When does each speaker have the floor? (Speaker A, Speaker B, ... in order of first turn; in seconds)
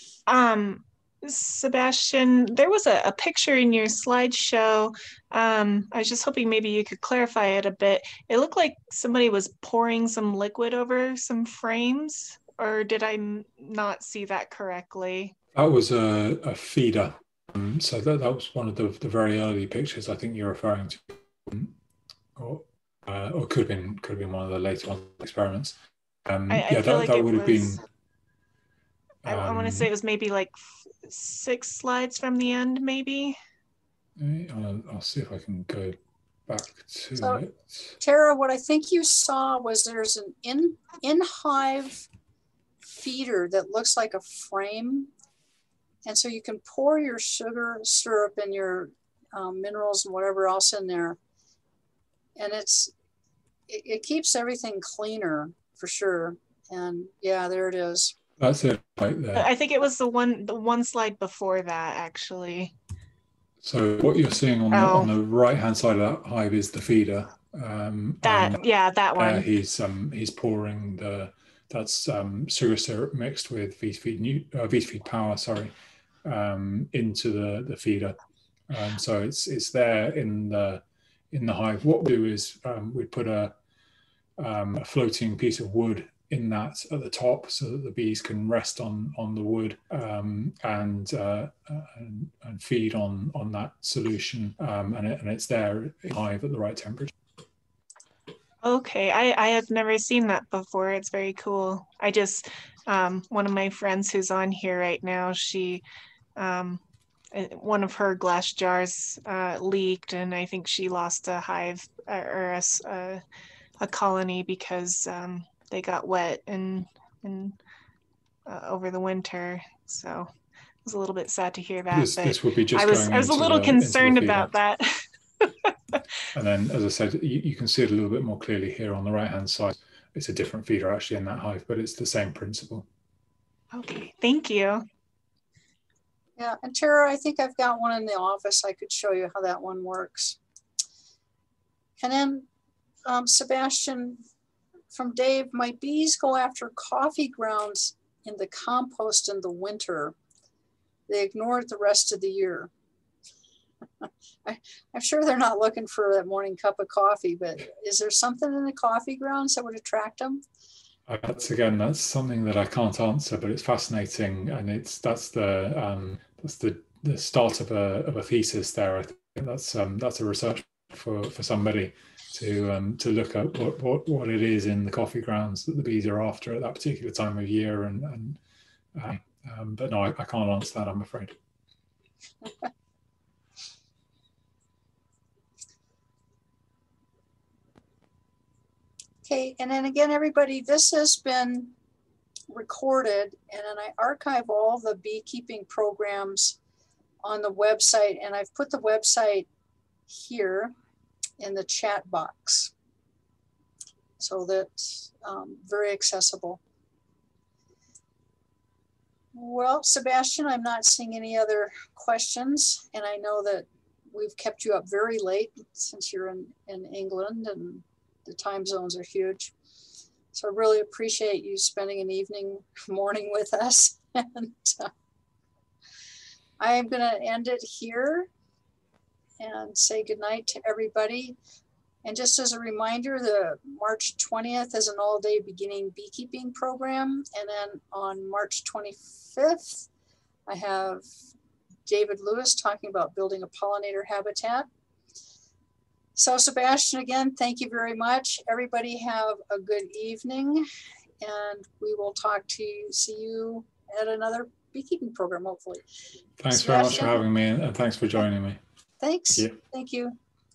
Speaker A: 0.3-15.3, 26.5-27.8, 29.3-33.4, 59.4-62.7, 64.7-65.1, 68.2-69.5, 98.6-105.8, 106.4-106.8, 107.3-113.2, 113.8-117.6, 118.5-120.3, 120.8-126.0, 133.7-134.9
Speaker B: 15.5-21.8, 22.4-27.8, 29.2-29.9, 34.2-38.0, 58.4-59.5, 63.6-68.6, 69.2-75.7, 76.2-78.2, 78.7-83.5, 84.4-97.1, 121.9-124.5, 126.3-132.9, 161.1-178.4, 178.9-181.3, 256.4-258.6
Speaker C: 37.2-37.4, 38.0-42.1, 42.8-45.1, 46.0-51.2, 52.4-52.9, 53.7-58.1, 136.4-140.4, 142.0-142.5, 143.1-144.2, 144.9-150.2, 151.1-152.7, 154.0-160.4, 189.2-191.7, 192.5-196.6, 197.2-199.5, 200.1-200.7, 201.4-202.7, 204.2-206.6, 209.3-219.5, 220.3-224.9, 226.6-228.3, 229.4-231.4, 232.0-239.9, 240.5-241.1, 241.9-244.7, 246.2-250.7, 251.2-255.8, 256.5-257.2, 259.0-260.2